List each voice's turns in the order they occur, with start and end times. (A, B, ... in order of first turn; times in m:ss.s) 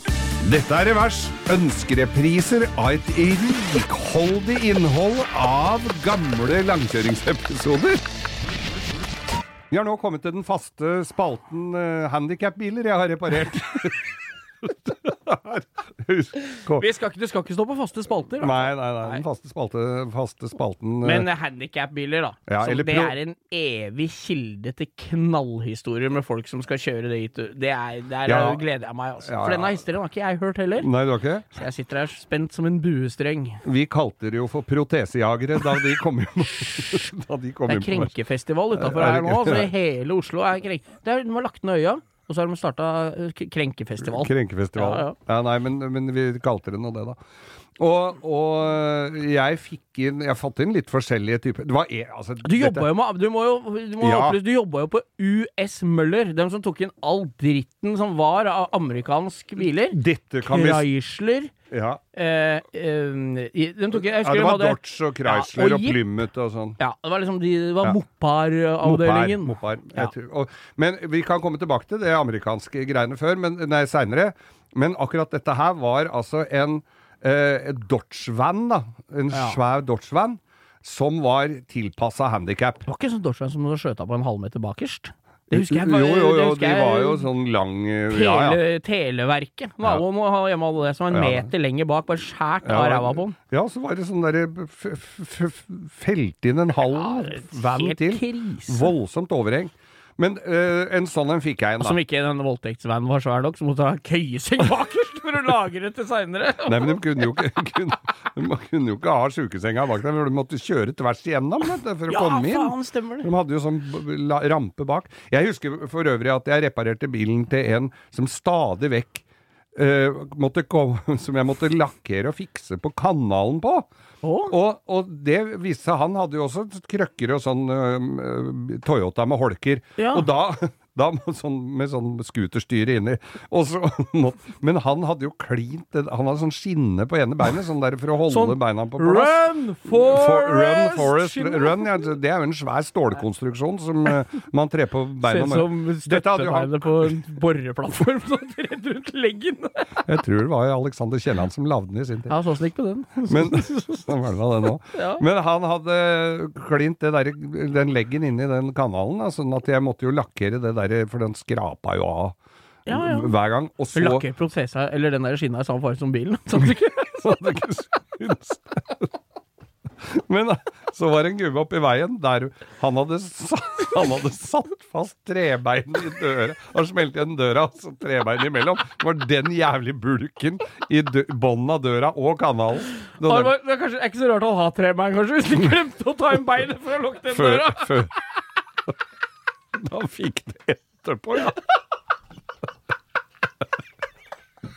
0:00.4-0:08.0 A
0:09.7-0:14.1 A
0:14.6-0:16.9 A
0:16.7-0:19.2 B
0:18.4-0:21.3 A
0:21.0-0:30.9 B
0:22.5-0:23.2 A
0:28.3-0:28.6 A
0:29.2-0:29.8 A
0:30.8-0:31.5 A
0:31.5-0:33.6 B
0:33.6-0:38.2 A
0:37.7-0:45.2 B
0:38.7-0:39.7 A
0:44.0-0:47.2 A
0:47.8-0:52.9 A
0:52.4-1:01.5 B
0:54.0-0:54.4 A
0:59.6-1:00.9 A
1:01.7-1:02.0 A
1:02.1-1:06.1 B
1:03.9-1:06.8 A
1:06.8-1:10.1 B
1:08.8-1:22.8 A
1:19.3-1:19.6 B
1:22.9-1:27.3 B
1:25.5-1:28.6 A
1:28.1-1:33.4 B
1:31.1-1:31.5 A
1:32.6-1:42.0 A
1:36.8-1:38.9 B
1:41.8-1:47.2 B
1:46.6-2:03.9 A
1:52.1-1:53.3 B
2:04.2-2:04.5 B
2:04.5-2:27.1 A
2:10.0-2:10.3 B
2:18.3-2:22.2 B
2:25.2-2:30.1 B
2:30.1-2:32.4 A
2:32.3-2:35.2 B
2:33.3-2:42.4 A
2:42.9-2:43.3 B
2:42.9-2:44.3 A
2:44.0-2:47.2 B
2:47.1-2:49.1 A
2:50.0-3:03.5 A
3:03.2-3:08.1 B
3:07.3-3:08.1 A
3:09.8-3:11.6 A